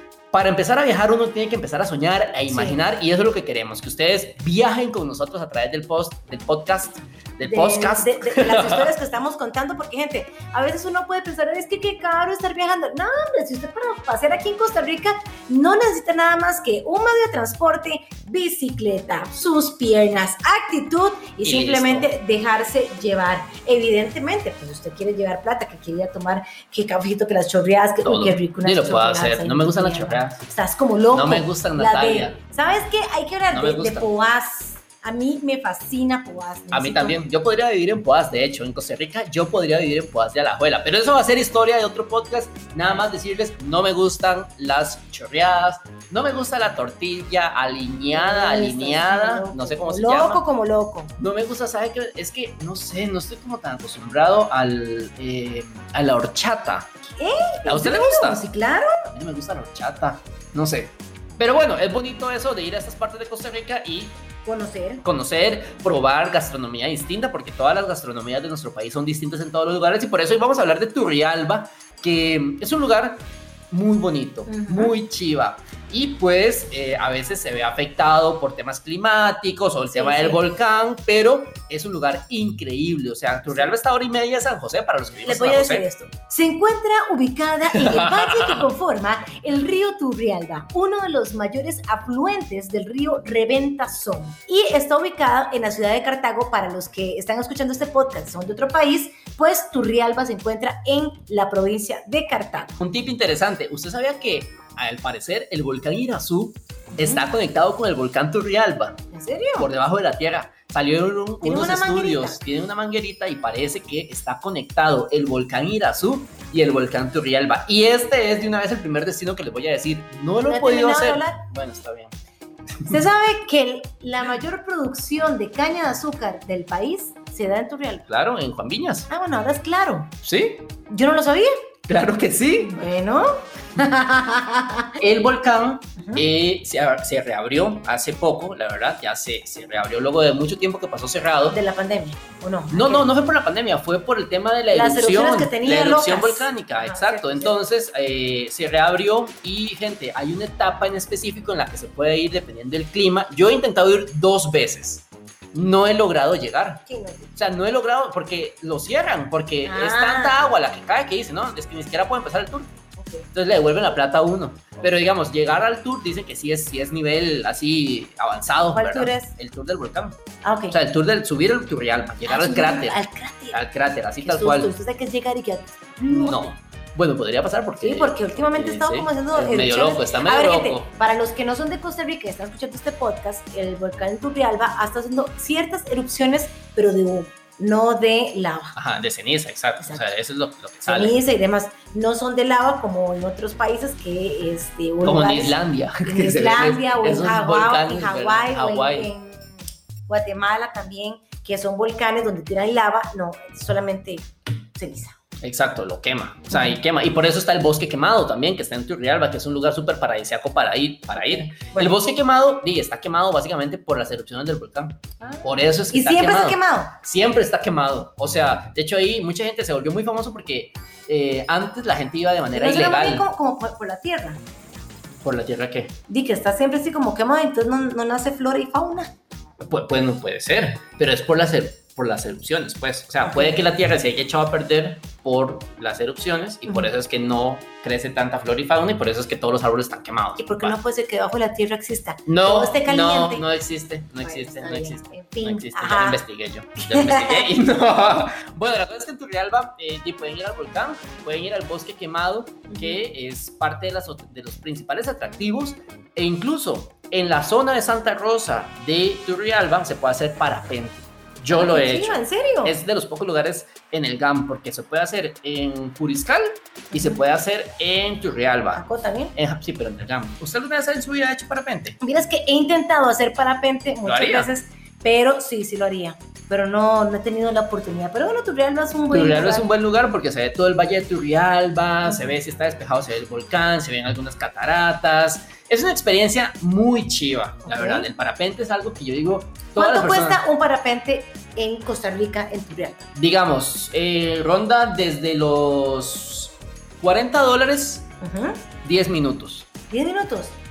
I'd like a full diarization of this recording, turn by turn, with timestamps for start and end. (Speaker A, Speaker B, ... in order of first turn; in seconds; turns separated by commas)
Speaker A: 0.3-8.9, Speaker B: 2.5-2.8, Speaker B: 7.4-37.2, Speaker A: 21.4-22.1, Speaker A: 28.0-30.4, Speaker A: 31.1-32.4, Speaker A: 33.5-34.1, Speaker A: 36.7-50.4, Speaker B: 48.1-51.1, Speaker A: 51.2-56.9, Speaker B: 57.2-59.1, Speaker A: 57.6-58.4, Speaker A: 59.1-64.2, Speaker B: 64.4-65.0, Speaker A: 65.0-85.9, Speaker B: 74.5-74.9, Speaker B: 79.9-80.4, Speaker B: 85.2-102.8, Speaker A: 87.7-88.7, Speaker A: 102.8-109.0, Speaker B: 106.9-107.2, Speaker B: 109.1-109.7, Speaker A: 109.5-122.1, Speaker B: 111.4-112.4, Speaker B: 120.5-121.4, Speaker B: 122.9-128.1, Speaker A: 128.1-129.1, Speaker B: 129.1-130.1, Speaker A: 130.2-130.7, Speaker B: 130.9-131.5, Speaker A: 131.9-132.8, Speaker B: 132.6-135.0, Speaker A: 135.0-141.6, Speaker B: 136.0-136.2, Speaker B: 141.5-143.1, Speaker A: 142.7-162.7, Speaker B: 144.7-147.6, Speaker B: 156.9-157.3, Speaker B: 159.6-160.4, Speaker B: 162.9-163.3, Speaker A: 163.3-170.2, Speaker B: 168.7-169.3, Speaker B: 170.4-170.8, Speaker A: 170.7-173.0, Speaker B: 172.3-173.6, Speaker A: 173.5-174.7, Speaker B: 174.2-176.5, Speaker A: 176.1-180.9, Speaker B: 177.8-188.8, Speaker A: 188.7-191.2, Speaker B: 189.8-190.1, Speaker B: 190.9-205.2, Speaker A: 195.0-199.1, Speaker A: 205.4-223.2, Speaker B: 206.5-206.8, Speaker B: 211.1-211.9, Speaker B: 215.2-216.9, Speaker B: 222.5-224.4, Speaker A: 225.2-225.9, Speaker B: 226.1-229.1, Speaker A: 229.6-240.8, Speaker B: 233.2-233.6, Speaker B: 240.4-243.5, Speaker A: 242.3-268.8, Speaker B: 244.2-246.2, Speaker B: 246.8-247.5, Speaker B: 252.7-253.0, Speaker B: 261.5-262.8, Speaker B: 266.9-267.2, Speaker B: 268.7-269.4, Speaker A: 269.3-272.0, Speaker B: 272.0-279.6, Speaker A: 274.0-274.5, Speaker A: 279.1-290.4, Speaker B: 282.1-282.3, Speaker B: 287.6-288.1, Speaker B: 289.8-293.1, Speaker A: 293.1-298.1, Speaker B: 298.2-298.6, Speaker A: 298.8-299.7, Speaker B: 299.9-300.6